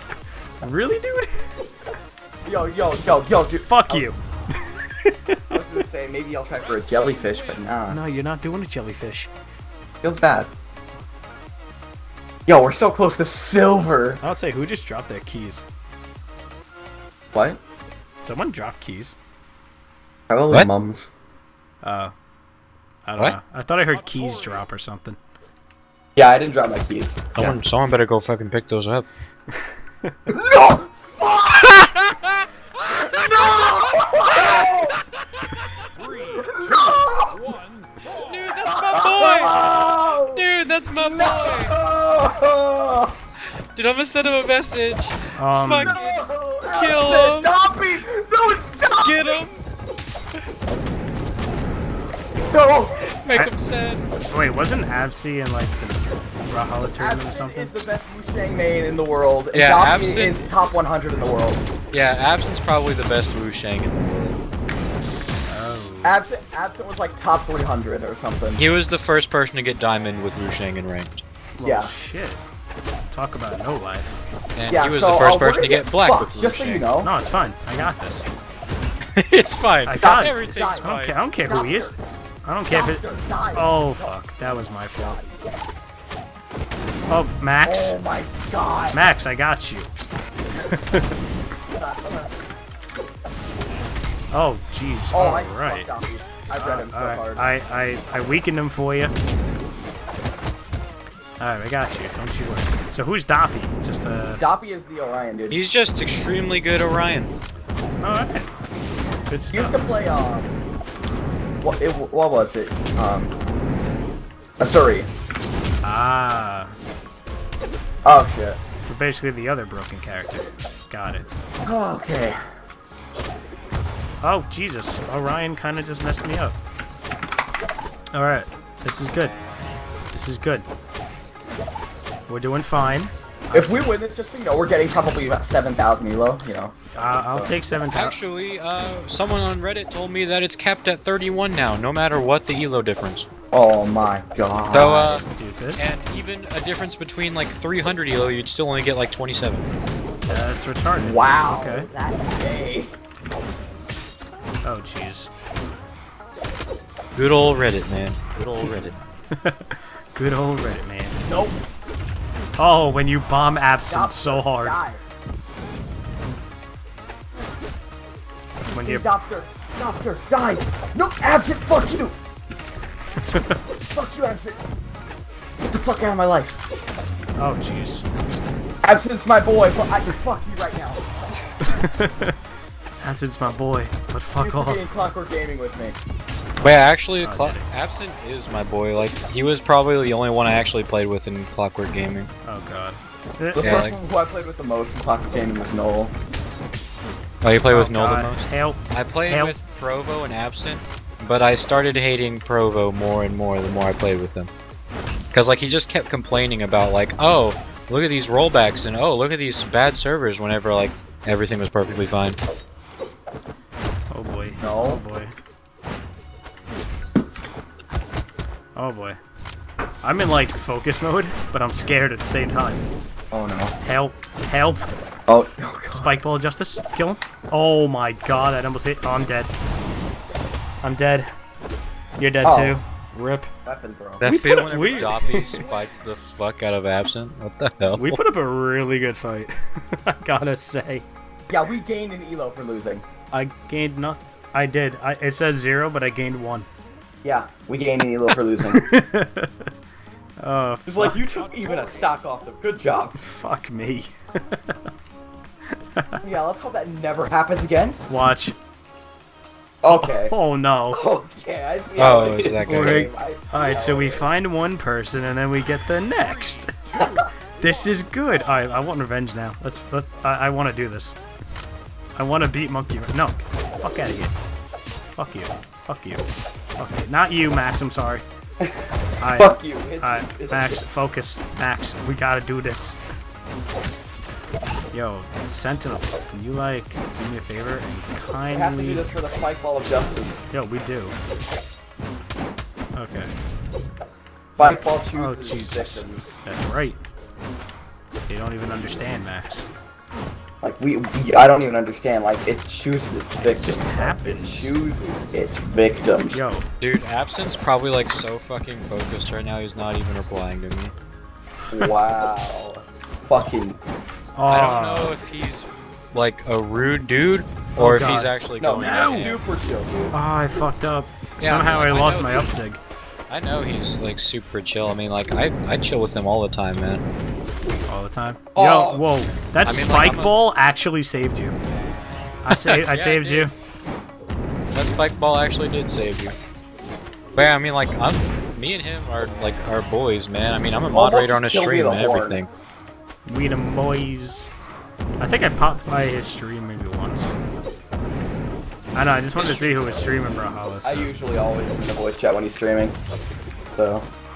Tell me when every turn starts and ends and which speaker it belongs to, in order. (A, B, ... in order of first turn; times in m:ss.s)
0:00.6-0:01.5 A
0:02.4-0:04.1 B
0:03.6-0:05.5 A
0:05.5-0:08.0 B
0:07.9-0:09.3 A
0:10.0-0:10.5 B
0:12.5-0:14.2 B
0:14.2-0:15.6 A
0:17.3-0:17.6 B
0:18.2-0:19.2 A
0:20.3-0:21.1 B
0:21.8-0:22.1 A
0:23.0-0:25.2 A
0:26.2-0:27.6 B
0:27.4-0:29.0 C
0:29.5-0:30.2 A
0:30.3-0:31.9 B
0:32.8-0:35.0 B
0:36.3-0:37.6 B
0:38.0-0:39.6 C
0:38.5-0:43.2 B
0:40.2-0:41.7 C
0:43.7-0:46.1 C
0:45.3-0:46.0 A
0:45.7-0:49.5 B
0:46.7-0:47.5 C
0:48.8-0:49.5 C
0:52.4-0:53.1 B
0:53.0-0:54.1 C
0:54.3-0:57.7 A
0:57.0-1:01.6 B
0:59.5-1:00.4 C
1:01.9-1:04.4 C
1:05.5-1:06.2 A
1:06.0-1:08.6 B
1:08.6-1:11.2 C
1:11.6-1:12.4 A
1:11.6-1:11.9 B
1:13.1-1:14.2 A
1:14.6-1:16.8 C
1:14.7-1:17.1 B
1:17.0-1:18.3 A
1:19.2-1:21.2 C
1:19.8-1:23.0 A
1:20.0-1:20.9 B
1:21.4-1:21.9 B
1:22.7-1:24.2 B
1:23.5-1:25.2 A
1:27.1-1:28.0 A
1:27.6-1:29.0 B
1:28.9-1:29.9 A
1:30.7-1:31.1 A
1:31.7-1:32.6 B
1:34.3-1:35.9 A
1:35.1-1:37.5 B
1:36.5-1:39.1 A
1:41.4-1:44.4 A
1:44.4-1:45.6 B
1:45.5-1:47.3 C
1:48.0-1:48.5 A
1:49.3-1:49.8 A
1:49.5-1:50.5 B
1:51.6-1:53.3 B
1:54.6-1:55.1 B
1:55.8-1:56.7 A
1:58.0-1:58.6 B
1:58.8-2:01.3 A
2:01.6-2:02.4 B
2:04.2-2:06.6 A
2:08.1-2:09.4 A
2:10.1-2:10.6 A
2:12.3-2:13.8 A
2:13.5-2:16.7 B
2:16.9-2:18.2 A
2:17.9-2:23.3 C
2:23.5-2:25.2 B
2:24.7-2:25.2 C
2:24.7-2:25.8 A
2:25.8-2:29.7 C
2:30.3-2:31.9 A
2:31.0-2:32.9 B
2:34.6-2:35.3 A
2:37.2-2:39.0 C
2:39.3-2:41.2 A
2:41.2-2:41.6 B
2:42.6-2:44.8 A
2:43.8-2:45.0 B
2:48.7-2:49.1 A
2:48.8-2:52.2 B
2:53.3-2:53.6 A
2:53.8-2:54.6 B
2:55.6-2:56.6 B
2:57.4-2:58.0 A
2:58.8-3:01.5 B
3:01.6-3:02.4 A
3:03.0-3:04.9 A
3:04.4-3:06.0 B
3:06.6-3:12.3 C
3:07.2-3:07.6 A
3:12.4-3:13.8 A
3:13.5-3:16.1 B
3:13.6-3:14.0 C
3:17.4-3:24.5 C
3:17.7-3:19.6 A
3:25.3-3:32.4 C
3:34.1-3:35.3 A
3:34.6-3:35.0 B
3:38.7-3:39.2 A
3:40.0-3:42.8 A
3:43.3-3:43.7 B
3:43.8-3:44.9 A
3:45.3-3:46.1 B
3:45.9-3:49.5 A
3:50.8-3:51.3 A
3:52.2-3:53.5 A
3:52.4-3:52.8 B
3:53.6-3:54.2 B
3:54.2-3:58.2 C
3:54.2-3:55.6 A
3:58.0-4:01.0 A
4:01.5-4:03.0 B
4:03.3-4:06.7 A
4:07.2-4:08.9 B
4:08.6-4:09.7 A
4:10.4-4:11.4 A
4:10.8-4:13.2 B
4:13.2-4:14.8 A
4:15.7-4:16.2 A
4:16.2-4:18.0 B
4:18.1-4:18.6 A
4:19.8-4:20.4 B
4:19.9-4:21.0 A
4:20.9-4:24.3 B
4:22.0-4:23.1 C
4:22.6-4:26.7 A
4:27.0-4:27.3 B
4:27.6-4:31.2 A
4:32.2-4:34.3 A
4:35.2-4:36.2 A
4:36.8-4:38.2 A
4:38.6-4:40.8 B
4:39.2-4:43.0 A
4:44.9-4:49.1 A
4:48.5-4:50.4 B
4:50.5-4:51.2 A
4:53.0-4:53.3 A
4:54.6-4:56.2 B
4:54.6-4:57.0 A
4:58.3-4:59.7 A
5:00.6-5:06.4 B
5:03.6-5:04.7 A
5:06.3-5:06.7 A
5:06.8-5:10.9 C
5:11.7-5:13.8 B
5:14.4-5:15.1 A
5:14.5-5:19.4 C
5:17.8-5:19.3 A
5:18.6-5:20.1 B
5:20.1-5:22.8 A
5:21.4-5:22.5 C
5:23.3-5:27.0 C
5:27.9-5:31.5 A
5:28.5-5:29.0 B
5:29.6-5:30.4 C
5:32.4-5:33.5 A
5:32.5-5:33.4 C
5:34.7-5:36.4 C
5:37.3-5:42.5 C
5:40.9-5:42.4 B
5:43.2-5:44.5 A
5:45.2-5:47.3 A
5:48.9-5:51.1 A
5:49.4-5:49.8 B
5:50.8-5:53.0 B
5:53.8-5:54.0 B